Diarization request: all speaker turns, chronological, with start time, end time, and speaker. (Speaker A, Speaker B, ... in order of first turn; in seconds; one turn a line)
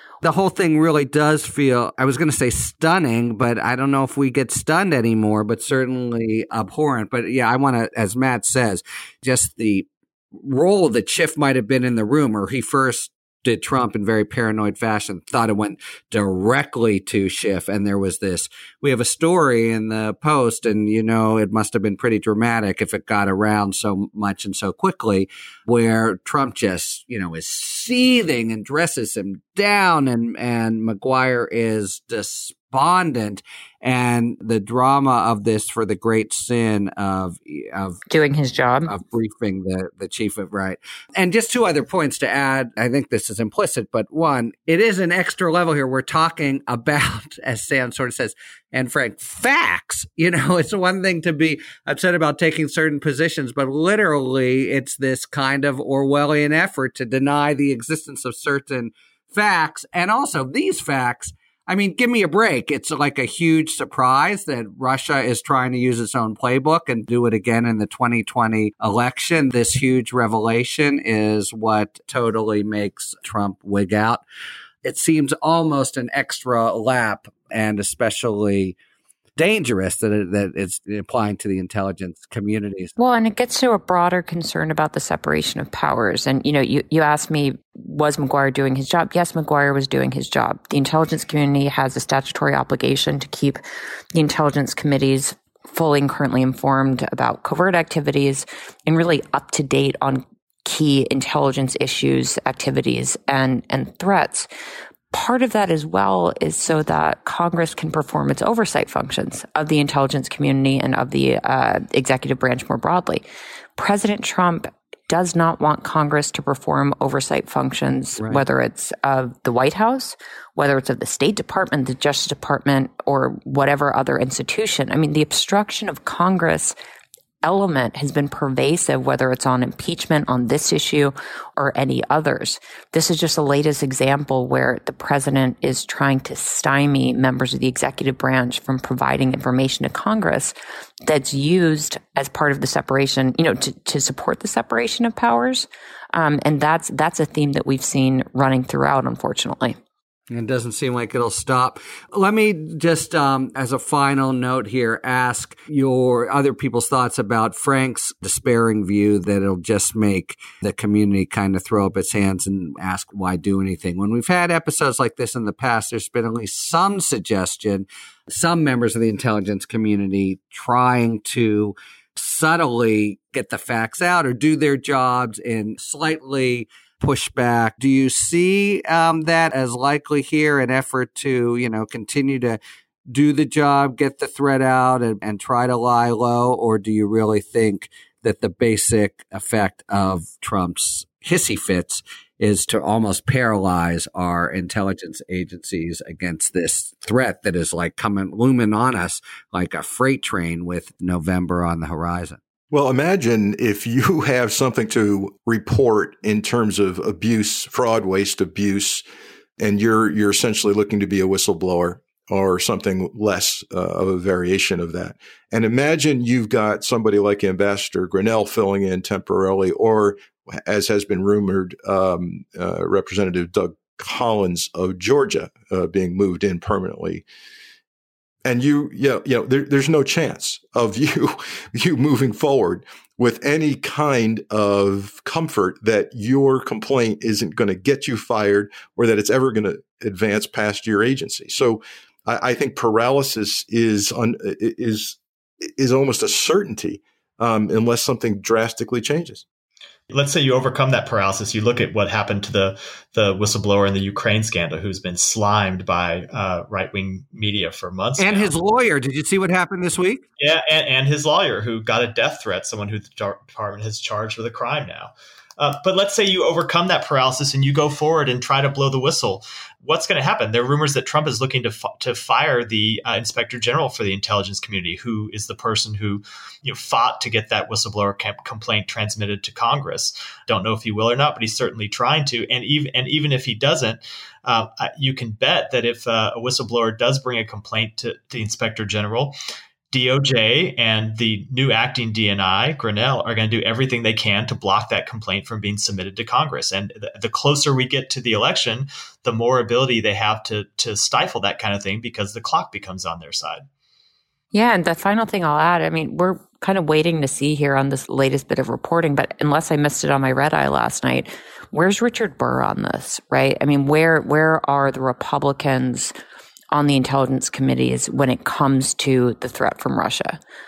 Speaker A: 0.2-38.0
Speaker B: 38.1-38.9
Speaker A: 38.9-74.2
Speaker A: 74.8-78.8
Speaker A: 79.4-83.0
Speaker B: 83.0-93.6
Speaker B: 94.1-104.5
Speaker B: 105.1-113.2
Speaker B: 113.8-126.7
Speaker A: 118.2-118.4
Speaker B: 127.4-140.5
Speaker B: 141.1-149.8
Speaker A: 150.3-202.4
Speaker C: 202.7-209.0
Speaker C: 209.6-227.2
Speaker C: 228.4-249.4
Speaker D: 250.1-258.6
Speaker A: 258.2-260.2
Speaker D: 260.4-289.4
Speaker D: 289.9-303.6
Speaker B: 304.5-316.1
Speaker B: 316.7-320.4